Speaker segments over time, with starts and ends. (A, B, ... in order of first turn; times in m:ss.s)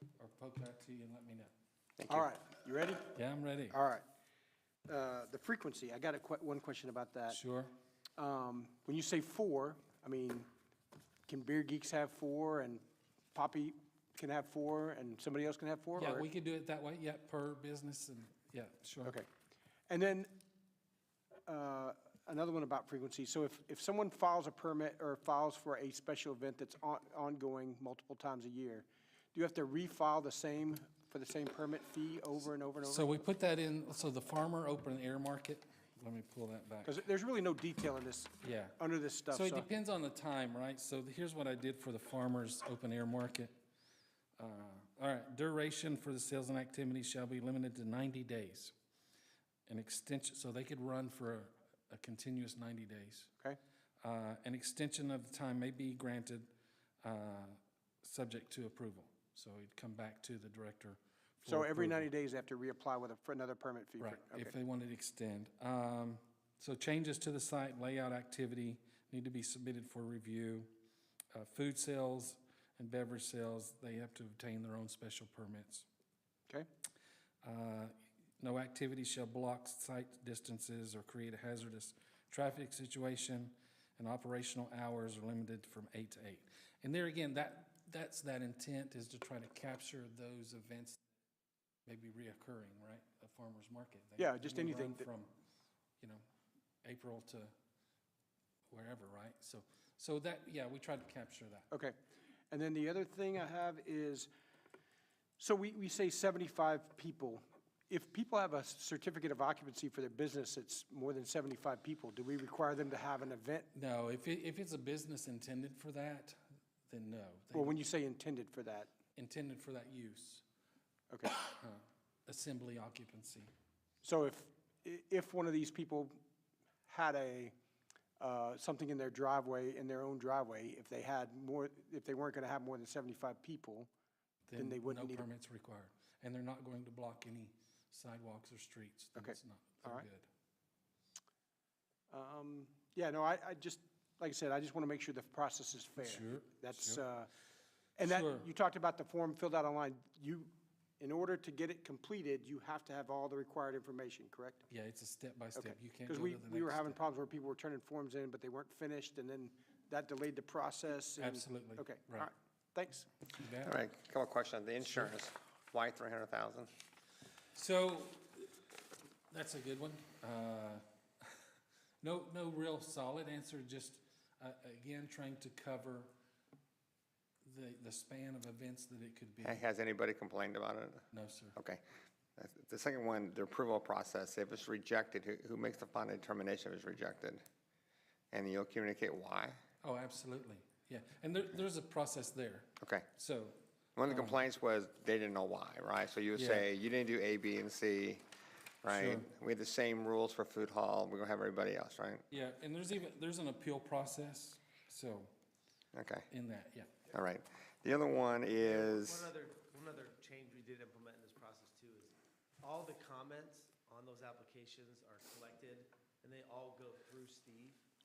0:00.2-0:01.5 A
0:02.0-0:02.3 B
0:02.1-0:03.1 C
0:03.1-0:03.8 A
0:03.7-0:04.0 C
0:04.8-0:07.4 C
0:07.3-0:07.7 A
0:08.2-0:10.5 C
0:11.3-0:16.3 C
0:15.9-0:19.2 A
0:19.9-0:20.4 C
0:21.5-0:33.1 C
0:32.8-0:36.9 A
0:36.8-0:39.7 C
0:38.4-0:43.5 A
0:44.4-0:48.7 A
0:49.7-0:53.3 A
0:54.0-0:56.5 A
0:57.0-1:02.1 A
1:01.4-1:04.5 C
1:04.0-1:10.7 A
1:11.3-1:15.9 A
1:17.4-1:31.0 A
1:31.8-1:35.3 A
1:34.2-1:35.1 C
1:36.8-1:37.5 A
1:38.7-1:41.7 A
1:41.7-1:42.0 C
1:42.5-1:44.3 C
1:45.4-1:53.7 C
1:53.7-1:57.8 A
1:57.5-1:58.9 C
1:59.2-2:00.4 A
2:01.1-2:01.4 C
2:01.2-2:03.5 A
2:04.0-2:06.2 C
2:06.9-2:07.5 C
2:08.2-2:13.9 C
2:14.5-2:20.2 A
2:14.6-2:15.2 C
2:19.2-2:20.1 C
2:22.1-2:27.3 C
2:26.0-2:27.0 A
2:28.0-2:34.6 C
2:28.0-2:28.4 A
2:34.7-2:37.0 A
2:35.5-2:43.1 C
2:41.2-2:42.3 A
2:43.4-2:43.8 A
2:43.6-2:46.7 B
2:44.8-2:45.1 A
2:47.5-2:48.5 A
2:49.3-2:51.4 A
2:52.0-2:56.1 A
2:57.4-2:59.6 A
2:59.4-3:01.0 B
3:01.1-3:01.6 A
3:01.6-3:01.8 B
3:02.4-3:07.4 B
3:08.3-3:09.6 B
3:09.8-3:14.4 A
3:12.8-3:13.0 B
3:14.0-3:18.2 B
3:16.3-3:16.6 A
3:18.8-3:22.2 B
3:18.9-3:19.3 A
3:22.3-3:25.3 A
3:25.9-3:26.3 B
3:26.3-3:26.9 A
3:27.1-3:29.3 B
3:28.6-3:37.8 D